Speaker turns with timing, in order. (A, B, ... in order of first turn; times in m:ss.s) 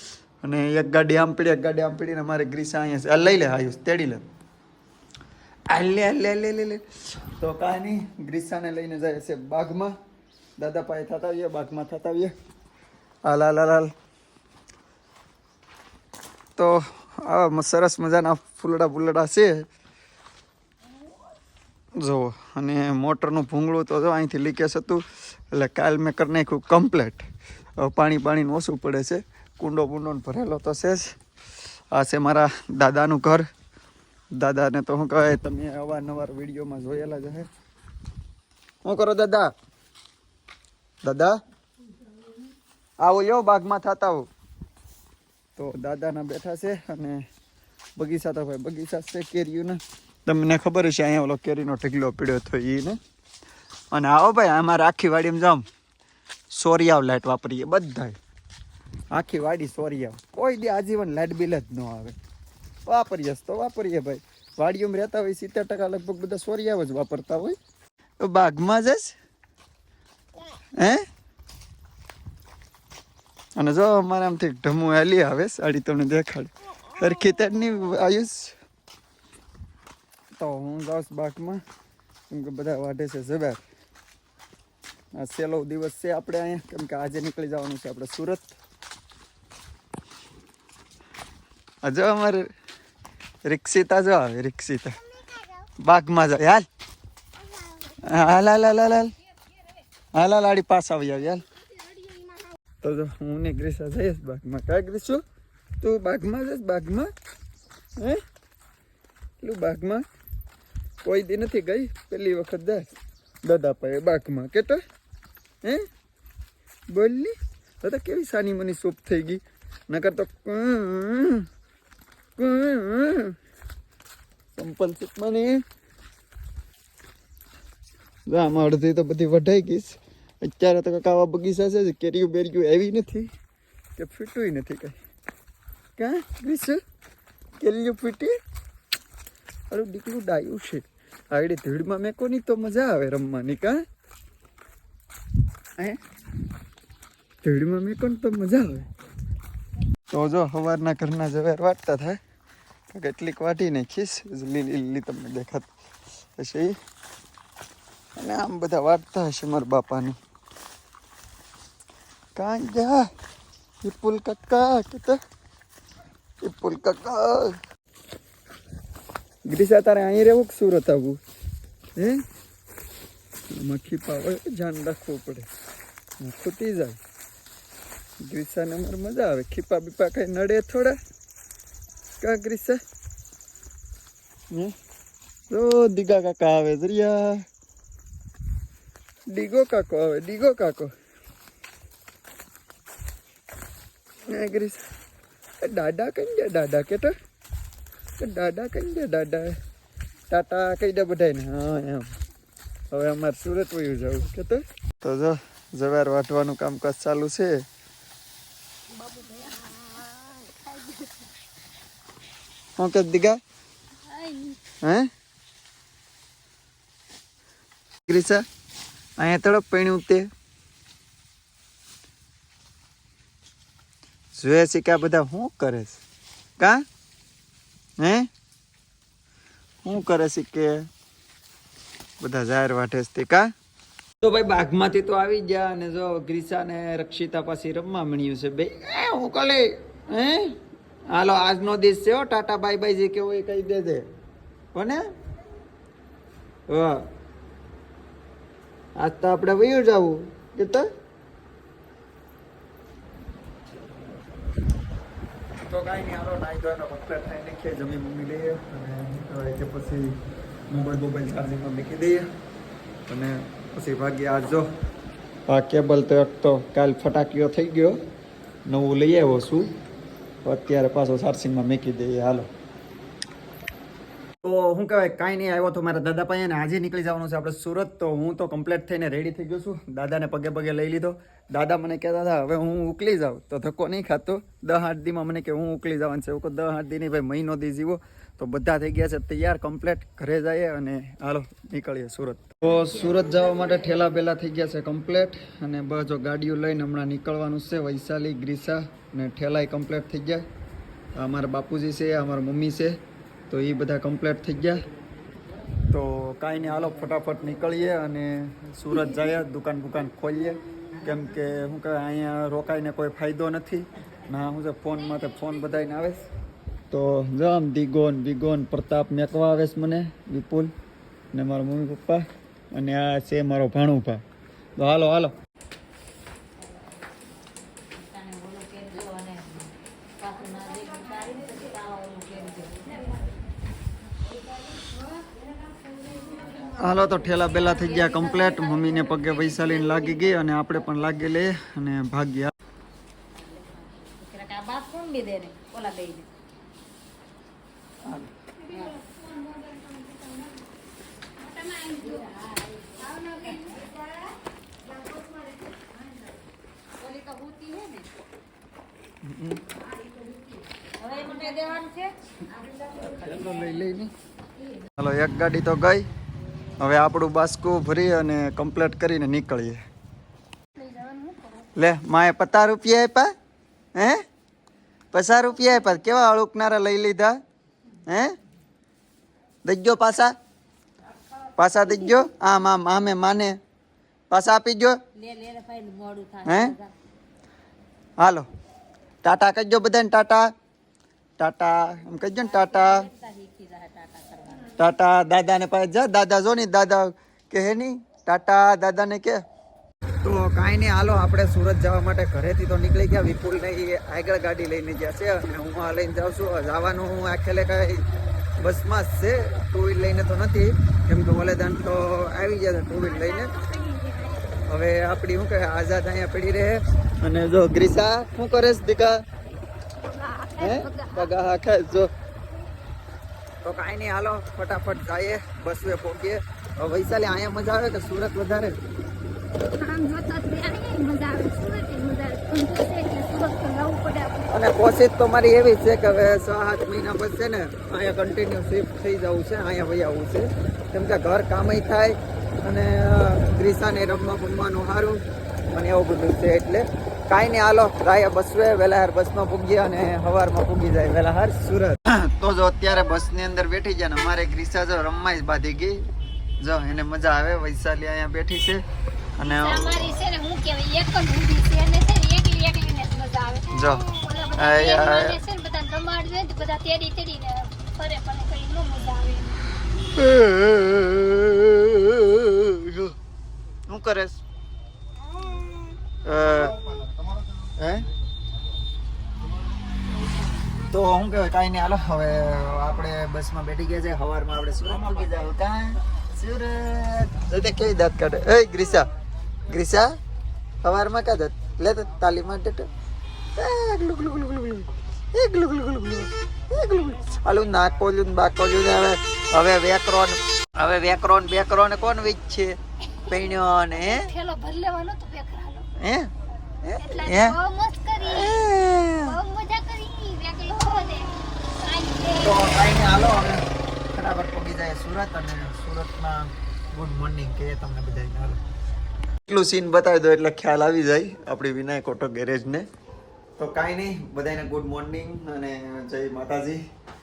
0:00.4-0:04.2 A
0:05.7-0:10.0 A
0:10.6-0:12.3 A
0:13.2-0:13.9 A
0:16.6-0:19.7 A
0:22.0-0:27.3 A
0:27.8-0:31.2 A
0:31.9-0:33.4 A
0:34.4-0:37.5 A
0:38.8-0:39.5 A
0:41.0-0:41.4 A
0:43.0-0:44.3 A
0:45.6-0:47.2 A
0:48.0-0:53.0 A
0:53.9-0:55.7 A
0:56.5-0:58.2 A
0:59.1-1:02.2 A
1:02.9-1:07.6 A
1:08.2-1:09.2 A
1:10.8-1:11.1 A
1:13.6-1:18.5 A
1:20.4-1:21.6 A
1:22.3-1:23.6 A
1:25.2-1:28.6 A
1:31.8-1:32.5 A
1:33.4-1:35.0 A
1:35.8-1:36.7 A
1:38.0-1:39.1 A
1:40.2-1:41.4 A
1:42.8-1:45.2 A
1:45.8-1:47.1 A
1:49.4-1:50.0 A
1:51.0-1:54.8 A
1:56.9-2:01.5 A
2:02.4-2:03.4 A
2:04.6-2:05.6 A
2:08.3-2:13.3 A
2:14.0-2:15.0 A
2:16.0-2:16.8 A
2:17.6-2:18.4 A
2:19.7-2:23.8 A
2:27.4-2:28.9 A
2:30.1-2:32.2 A
2:32.9-2:35.7 A
2:36.4-2:36.8 A
2:38.2-2:40.2 A
2:42.4-2:43.1 A
2:43.8-2:45.2 A
2:46.4-2:47.6 A
2:49.5-2:51.2 A
2:52.0-2:52.2 A
2:53.5-2:55.5 A
2:56.2-2:57.0 A
2:58.2-3:01.0 A
3:02.2-3:02.8 A
3:05.5-3:07.4 A
3:09.3-3:10.9 A
3:14.3-3:14.9 A
3:15.6-3:17.1 A
3:18.2-3:19.6 A
3:20.3-3:22.2 A
3:22.9-3:27.6 A
3:29.0-3:31.1 B
3:32.8-3:33.4 A
3:34.1-3:34.6 B
3:34.8-3:35.1 A
3:38.1-3:38.4 A
3:39.2-3:40.3 A
3:44.4-3:46.0 A
3:48.0-3:48.3 A
3:49.8-3:50.9 A
3:52.2-3:53.5 A
3:54.2-4:00.6 A
4:01.1-4:04.1 A
4:04.7-4:05.0 A
4:06.7-4:07.1 A
4:09.0-4:10.9 A
4:15.7-4:20.2 A
4:20.7-4:22.3 A
4:23.1-4:24.7 A
4:25.5-4:28.0 A
4:28.7-4:29.7 A
4:30.4-4:32.5 A
4:34.4-5:00.4 A
5:01.2-5:03.0 A
5:03.5-5:04.8 A
5:05.9-5:16.3 A
5:16.9-5:20.7 A
5:21.3-5:24.2 A
5:24.8-5:25.4 A
5:27.8-5:33.0 C
5:36.8-5:42.5 A
5:43.4-5:46.3 C
5:48.0-5:48.3 A
5:48.7-5:49.0 C
5:51.6-5:52.1 B
5:51.8-5:53.7 C
5:57.0-5:58.1 C
5:59.2-5:59.6 A
6:01.0-6:02.2 C
6:02.9-6:04.1 A
6:05.0-6:06.1 A
6:06.8-6:09.8 A
6:10.8-6:11.6 B
6:11.8-6:13.3 A
6:14.0-6:14.2 A
6:15.1-6:17.4 A
6:18.1-6:18.4 A
6:19.6-6:20.4 A
6:21.6-6:23.6 A
6:24.3-6:25.0 A
6:25.2-6:26.9 C
6:26.5-6:26.8 A
6:28.2-6:28.5 A
6:29.2-6:30.5 A
6:31.4-6:33.1 A
6:32.4-6:34.8 C
6:34.8-6:39.4 A
6:40.2-6:48.0 A
6:48.6-6:53.5 A
6:53.0-6:54.5 B
6:54.7-6:59.2 A
7:00.0-7:01.3 B
7:00.6-7:02.1 A
7:03.6-7:08.8 A
7:09.8-7:14.5 B
7:14.5-7:36.0 A
7:36.6-7:38.8 A
7:39.4-7:40.1 A
7:39.6-7:49.6 B
7:43.7-7:45.4 A
7:50.1-7:53.2 A
7:53.9-7:54.4 A
7:56.2-7:57.0 A
7:57.8-7:58.1 A
8:00.9-8:09.1 A
8:09.7-8:10.2 A
8:10.8-8:12.9 A
8:13.6-8:24.3 A
8:23.8-8:25.9 B
8:26.0-8:26.3 A
8:26.8-8:27.6 A
8:27.0-8:32.8 B
8:28.2-8:29.4 A
8:32.4-8:38.6 A
8:39.5-8:42.9 A
8:43.6-8:46.8 A